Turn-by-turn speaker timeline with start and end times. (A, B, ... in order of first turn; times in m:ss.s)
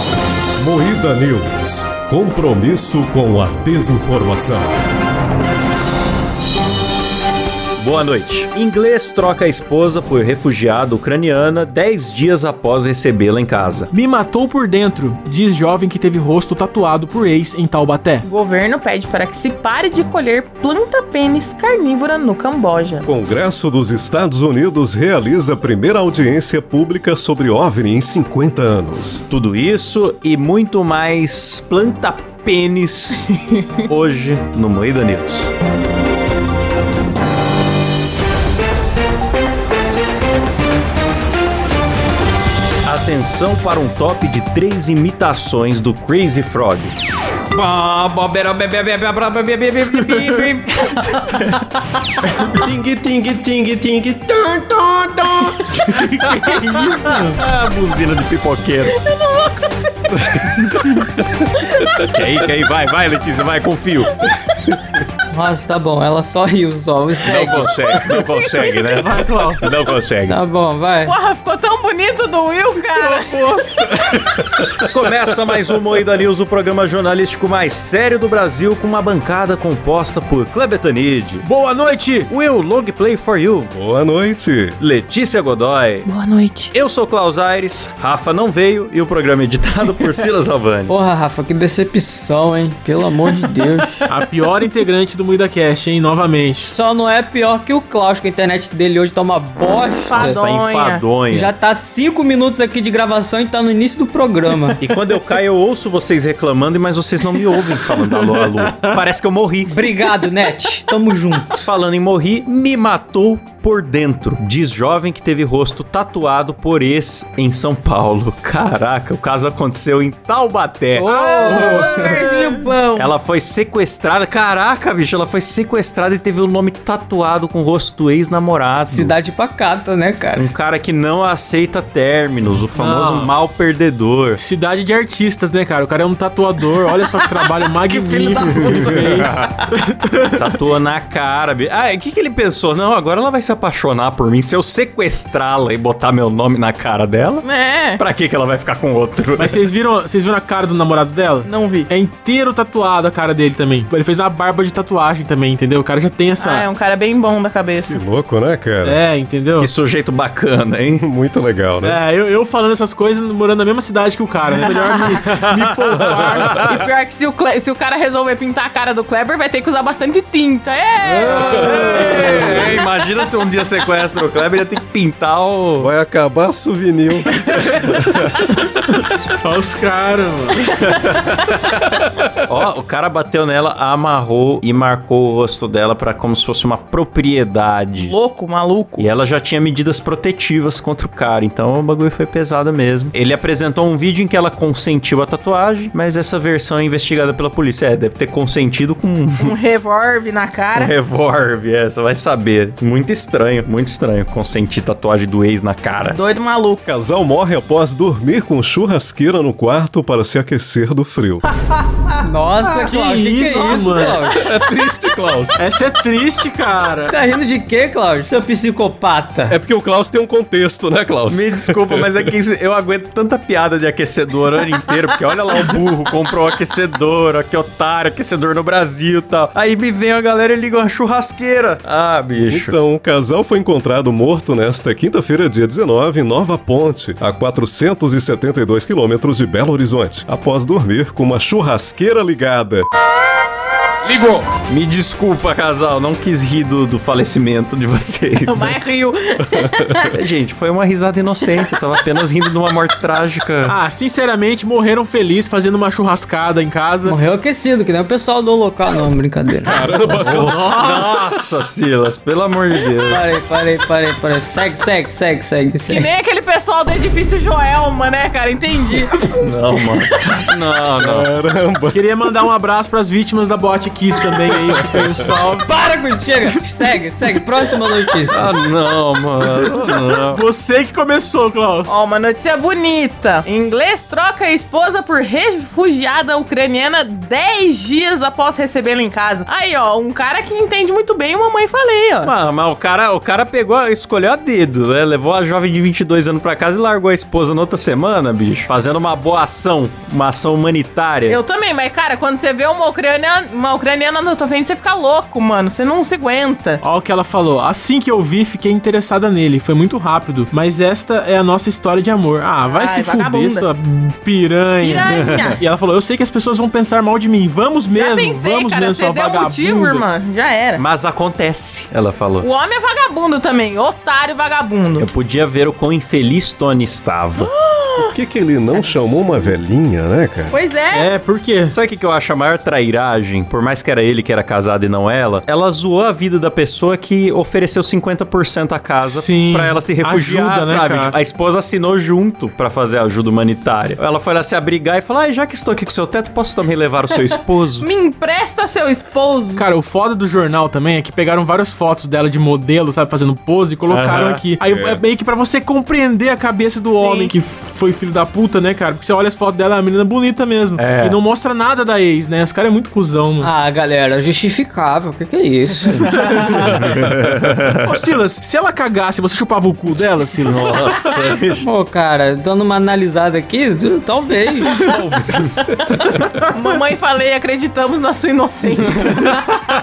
0:00.6-0:04.7 A
0:07.8-0:13.9 B
0:13.9-0:18.2 C
0:18.2-0:23.1 D
0:23.1-0:29.2 A
0:29.3-0:33.3 B
0:33.4-0:33.8 D
0:33.9-0:35.5 B
0:42.8-0:46.9 B
0:47.5-0:51.7 B
0:52.5-0:55.9 A
0:56.1-0:59.0 B
0:56.2-0:56.9 C
0:58.9-1:00.2 D
1:00.2-1:00.6 A
1:00.6-1:01.1 B
1:02.0-1:04.1 B
1:05.3-1:07.8 E
1:07.2-1:10.4 B
1:08.2-1:08.6 D
1:09.0-1:09.7 C
1:10.3-1:11.2 E
1:11.0-1:13.8 D
1:13.3-1:15.2 A
1:14.8-1:21.5 B
1:21.4-1:22.3 C
1:22.3-1:23.7 B
1:23.7-1:24.8 A
1:24.8-1:26.1 B
1:26.1-1:26.7 D
1:26.7-1:30.9 B
1:30.9-1:34.1 E
1:34.1-1:36.7 C
1:36.6-1:40.4 E
1:40.1-1:41.2 D
1:40.1-1:41.5 B
1:41.3-1:44.8 E
1:44.8-1:49.8 B
1:49.7-1:51.7 E
1:51.6-2:01.8 B
2:00.9-2:02.4 E
2:01.1-2:03.2 D
2:01.5-2:02.1 C
2:03.0-2:09.2 B
2:08.9-2:10.5 E
2:10.4-2:14.4 B
2:12.7-2:13.3 C
2:14.4-2:19.5 C
2:17.0-2:19.7 D
2:18.6-2:19.4 B
2:20.3-2:29.6 B
2:27.4-2:28.0 D
2:29.4-2:36.7 C
2:31.4-2:31.9 D
2:36.4-2:38.0 D
2:37.9-2:39.0 A
2:38.8-2:39.7 C
2:39.6-2:41.1 B
2:41.0-2:42.0 A
2:41.8-2:46.6 C
2:44.6-2:45.2 D
2:45.3-2:46.8 B
2:46.6-2:51.6 D
2:51.0-2:52.7 A
2:51.4-2:52.6 C
2:51.5-2:55.9 B
2:55.8-2:58.2 A
2:57.6-2:58.4 B
2:59.4-3:00.7 C
3:00.7-3:08.2 B
3:08.0-3:09.1 D
3:09.0-3:19.6 B
3:19.4-3:20.9 D
3:20.8-3:26.2 B
3:26.1-3:26.8 D
3:26.9-3:31.4 A
3:32.2-3:34.6 E
3:32.8-3:34.3 C
3:34.3-3:35.6 A
3:35.6-3:37.1 C
3:37.1-3:39.6 E
3:39.5-3:42.0 A
3:41.3-3:52.8 B
3:52.5-4:02.8 A
4:04.1-4:08.8 B
4:08.4-4:10.1 D
4:10.1-4:13.8 B
4:11.4-4:11.8 D
4:13.6-4:17.2 C
4:17.0-4:20.2 E
4:19.6-4:21.2 A
4:20.2-4:23.2 B
4:20.3-4:21.3 C
4:23.0-4:26.1 E
4:25.8-4:29.2 D
4:29.4-4:31.3 B
4:31.0-4:32.1 A
4:31.9-4:35.4 C
4:34.5-4:35.3 A
4:35.5-4:38.5 E
4:38.3-4:40.4 B
4:39.7-4:41.9 C
4:41.9-4:52.3 D
4:52.2-5:01.4 B
5:01.3-5:06.8 D
5:06.8-5:20.0 C
5:12.7-5:13.7 D
5:14.8-5:15.6 D
5:15.0-5:15.6 B
5:17.9-5:20.8 D
5:20.8-5:22.5 B
5:22.4-5:25.1 D
5:25.0-5:27.5 B
5:27.4-5:28.2 D
5:28.0-5:30.5 A
5:30.5-5:31.1 D
5:31.0-5:31.7 C
5:31.7-5:47.9 B
5:39.0-5:41.2 C
5:47.8-5:49.7 D
5:49.6-6:03.5 C
5:53.9-5:54.4 B
5:54.6-5:55.0 A
5:56.9-5:57.3 D
6:00.8-6:01.2 B
6:03.4-6:06.5 E
6:06.1-6:06.5 D
6:06.2-6:06.6 C
6:06.6-6:07.9 B
6:07.8-6:11.1 C
6:10.4-6:11.7 B
6:11.6-6:14.9 E
6:14.9-6:15.6 B
6:15.1-6:15.6 A
6:15.9-6:19.4 D